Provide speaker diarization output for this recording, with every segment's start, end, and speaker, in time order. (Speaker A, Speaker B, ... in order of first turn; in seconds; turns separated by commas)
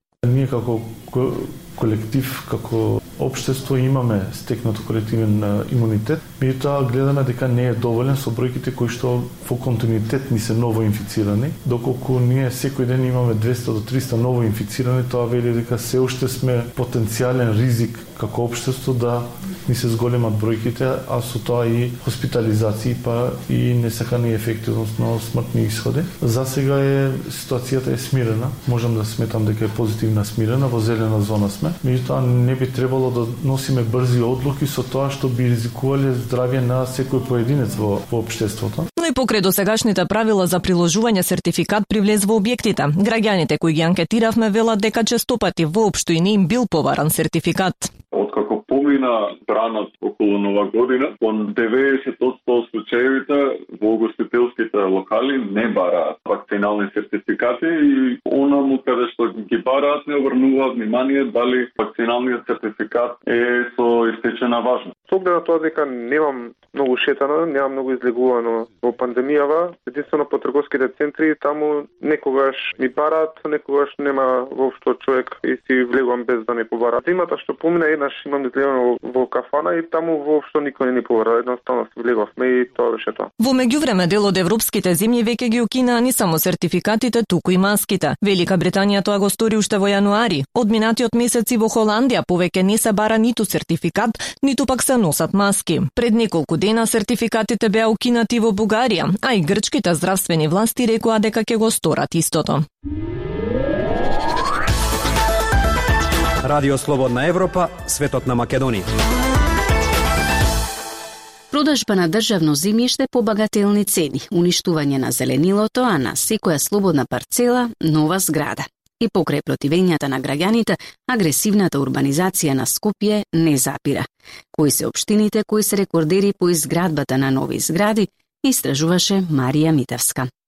Speaker A: 0.2-38.9, Speaker B: 39.0-47.9, Speaker C: 48.1-64.9, Speaker D: 65.1-83.3, Speaker B: 83.4-102.6, Speaker E: 106.5-108.8, Speaker F: 111.5-130.3